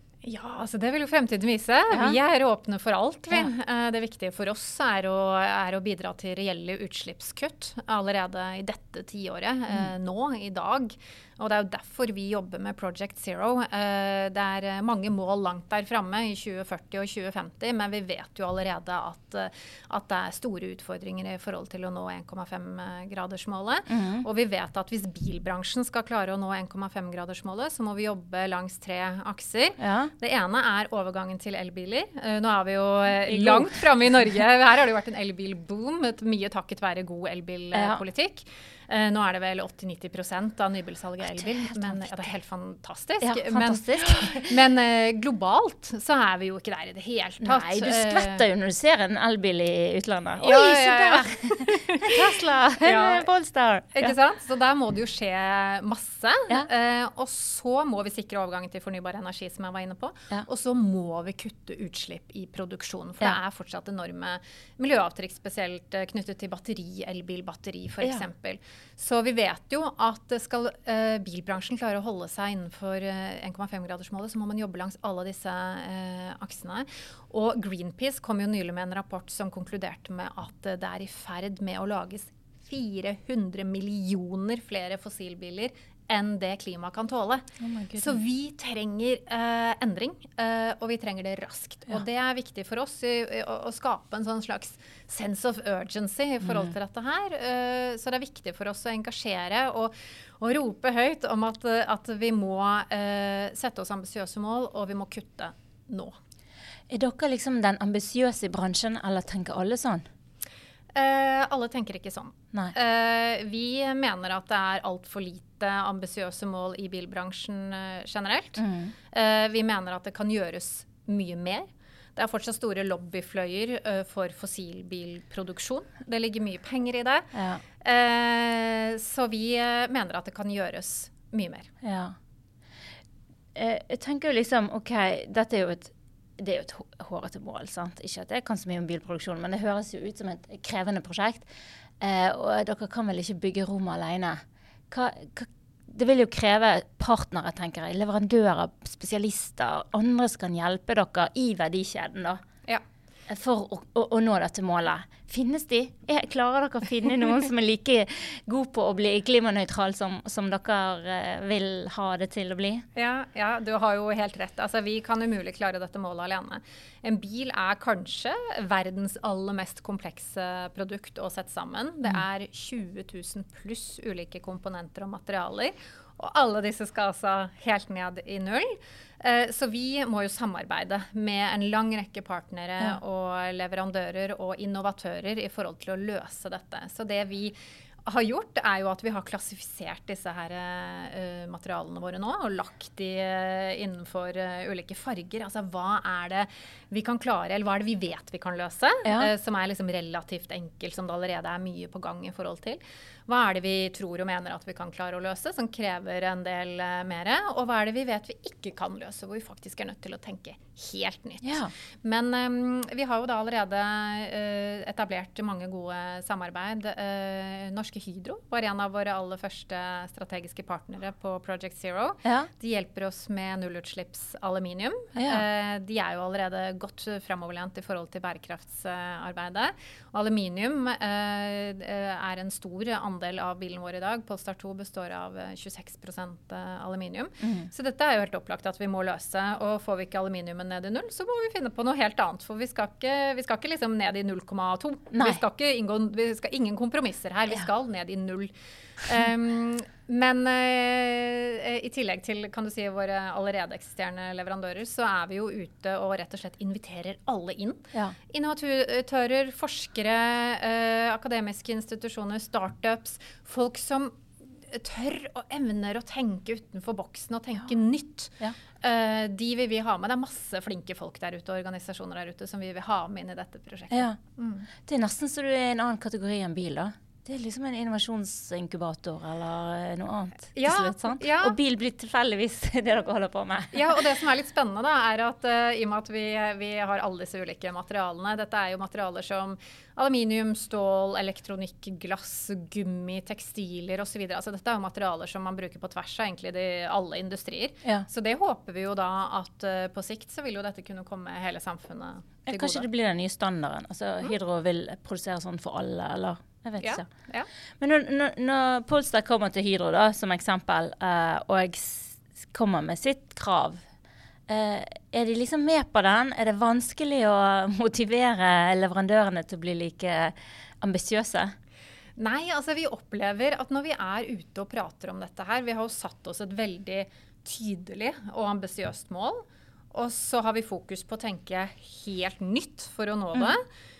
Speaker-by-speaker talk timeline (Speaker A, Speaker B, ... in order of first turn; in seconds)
Speaker A: 0.2-48.4, 50.4-53.3, 53.9-87.4, 88.0-106.2, 110.9-127.3, 127.8-131.7, 162.9-248.5, 249.0-274.7, 280.5-281.6, 283.7-302.9, 306.8-307.5, 322.2-333.6
Speaker B: 23.9-24.2, 29.8-30.1, 33.2-33.8, 37.7-38.0, 41.2-42.3, 43.2-44.5, 47.4-54.1, 87.6-88.2, 96.4-96.7, 106.9-110.0, 118.6-118.9, 127.3-127.6, 131.8-132.2, 133.5-141.5, 142.0-152.4, 153.3-162.8, 211.4-211.7, 222.2-222.5, 225.1-225.4, 237.4-237.7, 245.1-245.4, 273.9-274.2, 274.9-284.0, 302.5-307.1, 307.8-313.8, 314.5-321.5